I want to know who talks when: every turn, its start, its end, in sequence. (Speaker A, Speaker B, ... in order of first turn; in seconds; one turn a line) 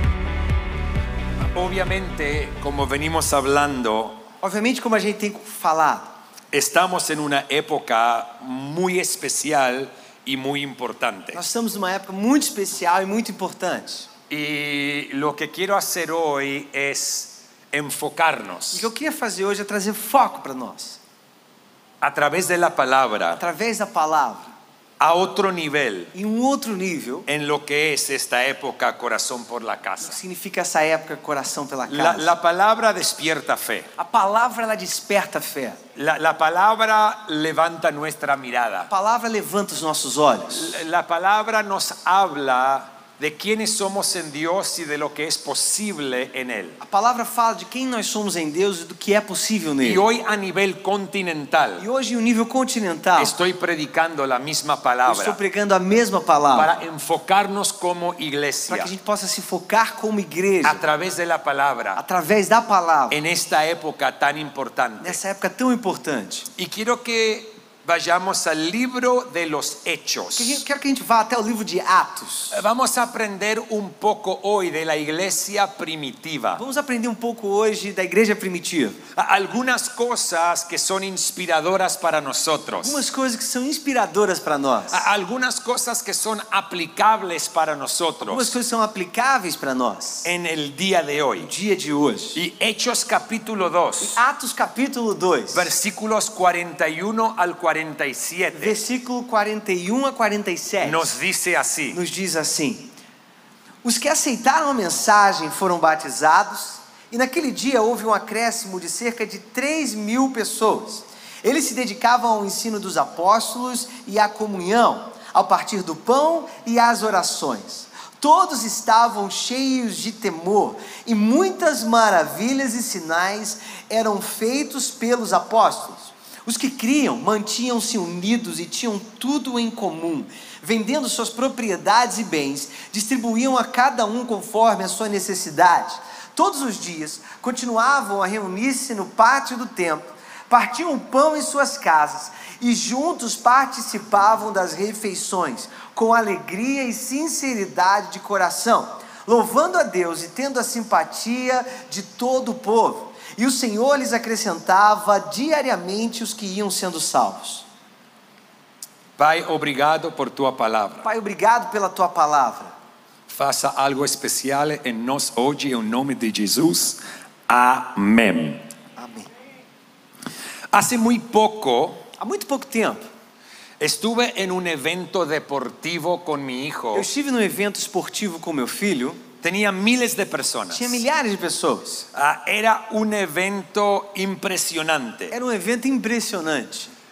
Speaker A: 1.5-4.2
Speaker B: 4.4-6.1
Speaker A: 6.5-11.4
Speaker B: 11.3-14.1
Speaker A: 14.3-18.9
Speaker B: 18.7-21.0
Speaker A: 22.0-23.4
Speaker B: 23.4-24.5
Speaker A: 25.0-26.1
Speaker B: 26.1-27.3
Speaker A: 27.3-30.2
Speaker B: 30.0-32.3
Speaker A: 31.9-33.9
Speaker B: 34.0-35.8
Speaker A: 36.0-38.9
Speaker B: 38.9-40.8
Speaker A: 40.5-46.8
Speaker B: 46.8-50.0
Speaker A: 49.8-51.8
Speaker B: 51.8-53.3
Speaker A: 53.2-55.4
Speaker B: 55.0-56.7
Speaker A: 56.5-58.9
Speaker B: 58.7-60.8
Speaker A: 60.6-62.0
Speaker B: 62.0-63.2
Speaker A: 63.1-65.2
Speaker B: 65.0-66.5
Speaker A: 66.5-70.6
Speaker B: 70.4-72.6
Speaker A: 72.5-76.6
Speaker B: 76.5-79.0
Speaker A: 79.1-83.0
Speaker B: 82.8-85.0
Speaker A: 84.9-88.5
Speaker B: 88.2-90.3
Speaker A: 90.2-91.5
Speaker B: 91.4-92.4
Speaker A: 92.3-94.2
Speaker B: 94.0-95.7
Speaker A: 95.5-98.8
Speaker B: 98.5-101.1
Speaker A: 100.8-102.0
Speaker B: 101.9-102.9
Speaker B: 103.8-157.7
Speaker A: 159.2-161.1
Speaker B: 161.0-162.7
Speaker A: 163.3-168.6
Speaker B: 169.0-169.3
Speaker A: 170.7-172.1
Speaker B: 172.2-173.0
Speaker A: 173.8-177.1
Speaker B: 176.9-179.2
Speaker A: 179.4-181.0
Speaker B: 180.7-182.1
Speaker A: 182.1-185.3
Speaker B: 185.3-186.9